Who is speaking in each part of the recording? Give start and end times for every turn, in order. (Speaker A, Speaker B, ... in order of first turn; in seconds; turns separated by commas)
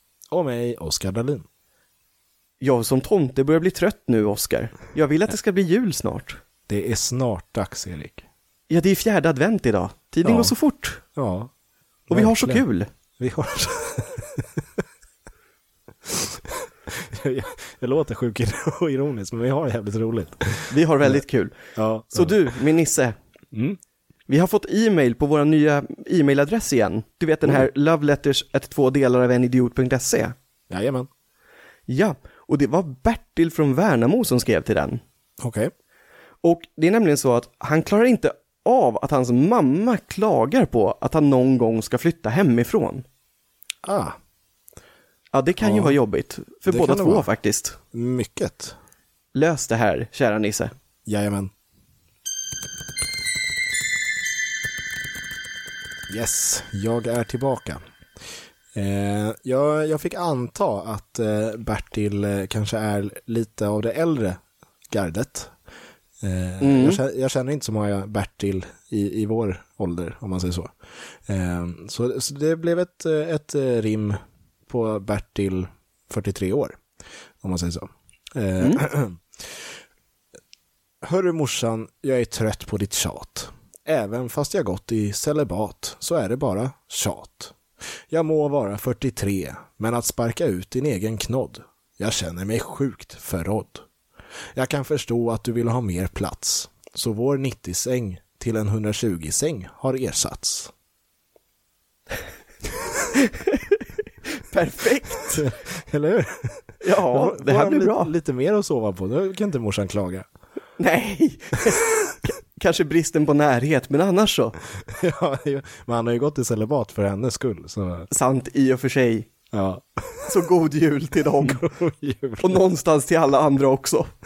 Speaker A: 0.3-1.4, Speaker B: 2.6-6.4, Speaker A: 6.7-8.2, Speaker B: 8.7-11.0, Speaker A: 10.2-10.6, Speaker A: 11.2-11.5, Speaker A: 12.1-12.7, Speaker B: 12.1-12.9, Speaker A: 13.2-14.4, Speaker A: 16.1-21.2, Speaker B: 20.7-21.6, Speaker A: 21.8-22.6, Speaker B: 22.1-23.1, Speaker A: 23.5-23.8, Speaker B: 24.3-30.3, Speaker A: 30.7-31.1, Speaker B: 31.9-35.0, Speaker A: 35.4-35.7, Speaker B: 36.4-43.0, Speaker A: 43.9-44.2, Speaker B: 45.3-47.8, Speaker A: 45.6-46.0, Speaker A: 46.7-47.3, Speaker A: 47.9-48.8, Speaker B: 49.3-50.7, Speaker A: 51.1-51.5, Speaker A: 56.1-57.8, Speaker A: 58.7-64.4, Speaker A: 64.9-65.5, Speaker A: 66.2-70.7, Speaker B: 66.6-67.0, Speaker A: 71.3-76.8, Speaker A: 77.4-79.2, Speaker A: 81.0-87.6, Speaker A: 88.1-93.8, Speaker A: 94.5-100.7, Speaker B: 103.1-103.8, Speaker B: 104.3-105.5, Speaker A: 105.2-110.3, Speaker B: 106.8-108.1, Speaker B: 110.8-114.6, Speaker A: 114.9-118.1, Speaker B: 118.1-119.3, Speaker A: 119.5-120.4, Speaker B: 120.3-121.6, Speaker A: 121.4-122.6, Speaker B: 122.4-124.1